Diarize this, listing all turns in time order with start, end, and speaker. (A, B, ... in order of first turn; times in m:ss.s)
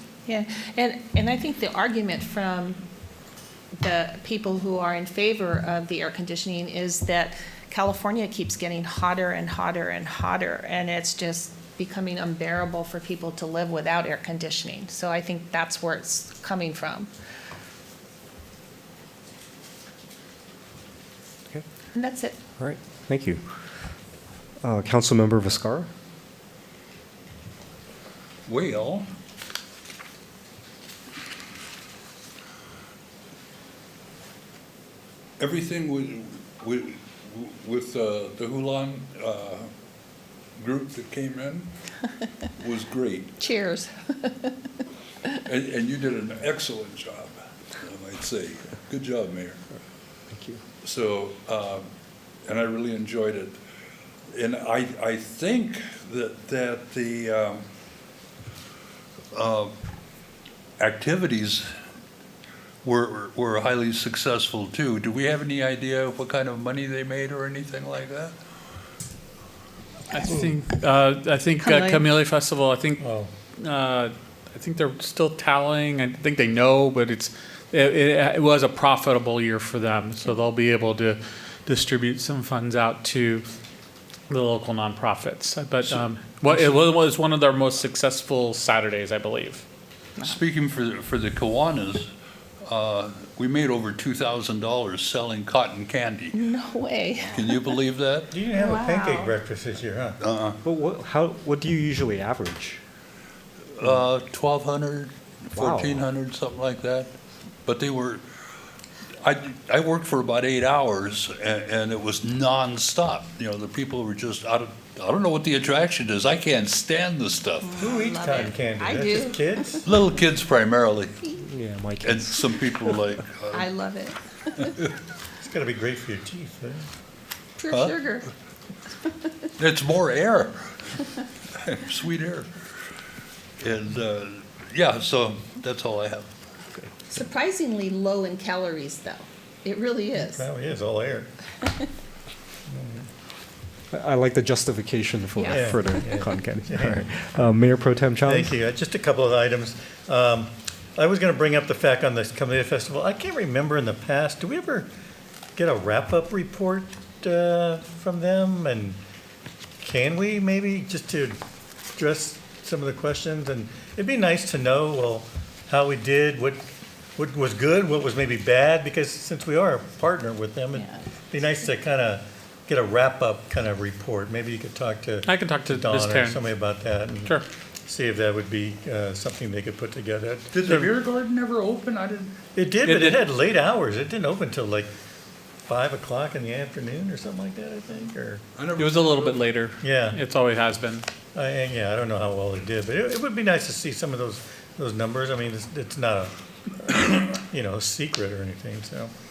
0:00.3-0:02.8 A
0:03.8-0:17.1 A
0:22.0-0:22.4 A
0:22.6-0:23.4 B
0:24.6-0:25.9 B
0:28.5-0:29.1 C
0:35.4-0:39.7 C
0:40.6-0:41.7 C
0:42.6-0:43.5 C
0:43.4-0:44.6 A
0:45.4-0:49.6 C
0:50.3-0:50.6 B
0:50.8-0:51.8 C
0:52.5-0:53.6 C
0:54.3-0:57.6 C
0:59.3-0:59.7 C
1:00.8-1:01.7 C
1:02.8-1:08.3 C
1:10.1-1:13.0 D
1:11.6-1:12.0 A
1:13.0-1:13.3 E
1:13.6-1:23.4 D
1:24.3-1:29.6 D
1:25.9-1:26.8 C
1:30.2-1:32.1 C
1:32.6-1:36.4 C
1:36.3-1:37.8 A
1:37.2-1:38.4 C
1:38.3-1:40.2 E
1:38.5-1:39.4 A
1:40.2-1:40.6 C
1:40.6-1:42.8 B
1:43.7-1:47.1 C
1:45.5-1:46.0 B
1:47.7-1:48.2 C
1:49.2-1:57.8 C
1:57.6-1:59.9 A
1:57.8-1:59.9 E
1:59.8-2:01.3 C
2:01.4-2:03.2 B
2:02.0-2:03.8 C
2:03.5-2:04.7 A
2:04.5-2:04.9 C
2:05.4-2:06.9 E
2:07.6-2:08.3 A
2:07.7-2:08.3 C
2:09.0-2:09.3 A
2:09.6-2:11.0 C
2:11.5-2:12.5 C
2:13.6-2:16.3 C
2:17.1-2:20.5 A
2:20.2-2:21.3 E
2:22.7-2:23.0 E
2:23.9-2:28.6 B
2:25.4-2:26.2 A
2:25.5-2:27.1 E
2:28.2-2:34.9 E
2:35.6-2:39.0 E
2:39.8-2:41.4 E
2:42.0-2:46.6 E
2:47.2-3:00.9 E
2:55.3-2:56.4 D
3:00.5-3:02.4 C
3:02.5-3:04.9 E
3:02.8-3:03.2 D
3:05.7-3:08.4 E
3:08.6-3:09.5 C
3:08.8-3:11.1 D
3:09.8-3:10.2 E
3:11.4-3:19.1 E